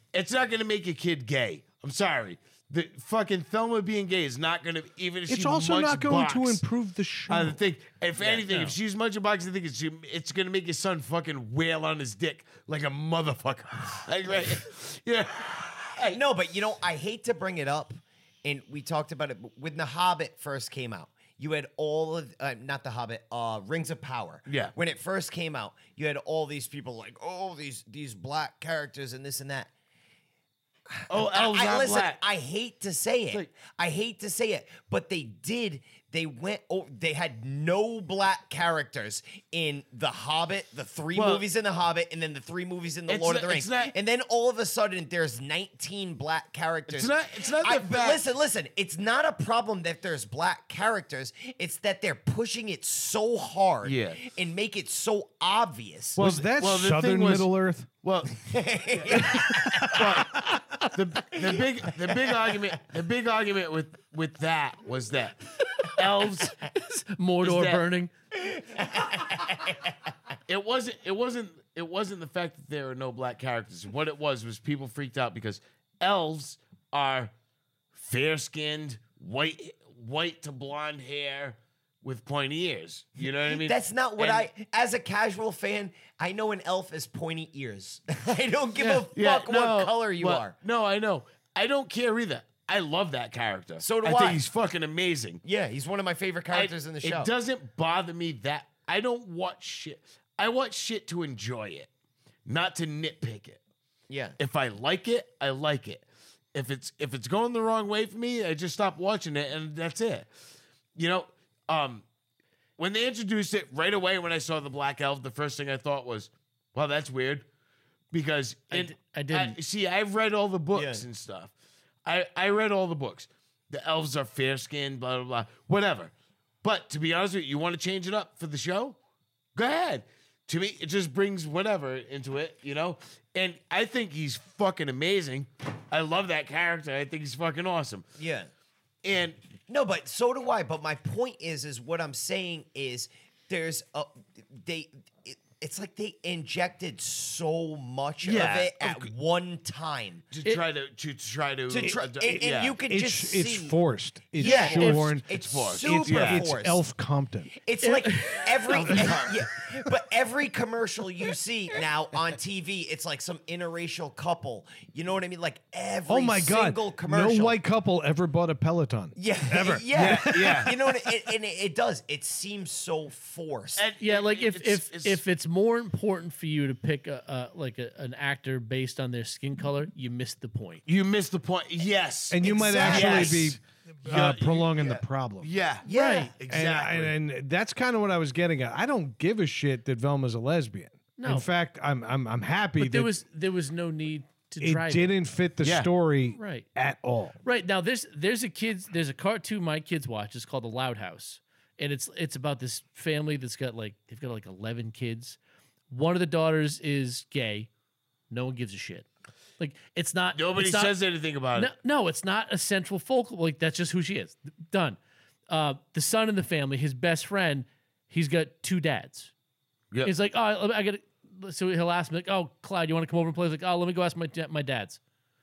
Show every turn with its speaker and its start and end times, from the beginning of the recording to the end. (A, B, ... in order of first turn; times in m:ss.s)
0:00.1-0:06.6 A
0:05.3-0:07.6 B
0:07.3-0:16.2 A
0:08.2-0:08.4 C
0:08.5-0:08.7 D
0:16.1-0:29.7 C
0:24.4-0:24.7 A
0:30.9-0:56.2 C
0:31.1-0:32.2 A
0:41.1-0:41.5 A
0:43.1-0:43.9 A
0:46.9-0:48.2 A
0:53.8-0:54.2 A
0:56.2-0:57.5 A
0:56.2-0:57.9 B
0:58.0-0:58.4 A
0:58.3-1:00.4 C
0:58.9-1:06.6 A
0:59.3-1:00.6 B
1:01.4-1:02.6 C
1:06.6-1:08.1 D
1:07.4-1:07.8 A
1:08.4-1:10.0 C
1:10.5-1:17.3 A
1:17.9-1:24.5 A
1:23.5-1:30.6 C
1:28.8-1:29.1 D
1:29.1-1:35.4 A
1:33.8-1:34.4 C
1:35.4-1:37.3 C
1:36.5-1:41.9 A
1:42.4-1:43.6 A
1:44.1-1:44.4 C
1:44.4-1:50.3 A
1:50.9-1:52.0 A
1:52.8-1:57.4 A
1:58.1-2:01.5 A
1:58.7-1:59.6 D
2:00.7-2:01.0 C
2:02.0-2:06.1 A
2:06.6-2:09.0 A
2:09.6-2:18.1 A
2:18.2-2:18.5 C
2:19.0-2:19.4 A
2:19.7-2:30.3 C
2:28.2-2:29.1 A
2:30.3-2:32.8 A
2:31.7-2:33.7 C
2:31.8-2:37.5 B
2:34.4-2:36.8 C
2:34.4-2:35.1 D
2:34.4-2:36.5 A
2:37.6-2:47.6 C
2:37.8-2:39.1 D
2:38.8-2:39.4 A
2:46.1-2:51.2 B
2:49.2-2:53.8 C
2:49.9-2:50.7 A
2:53.8-2:55.2 A
2:54.0-3:00.8 D
3:00.8-3:07.1 A
3:02.3-3:05.5 B
3:02.4-3:03.5 C
3:05.8-3:06.3 C
3:05.9-3:06.3 D
3:06.5-3:13.1 B
3:11.2-3:11.4 D
3:12.8-3:15.1 D
3:14.6-3:17.4 B
3:15.6-3:15.9 A
3:16.4-3:16.7 D
3:17.4-3:25.4 D
3:25.9-3:27.7 D
3:28.3-3:29.1 D
3:29.6-3:31.0 D
3:30.3-3:31.7 A
3:31.6-3:35.0 D
3:35.5-3:39.3 D
3:40.0-3:45.0 D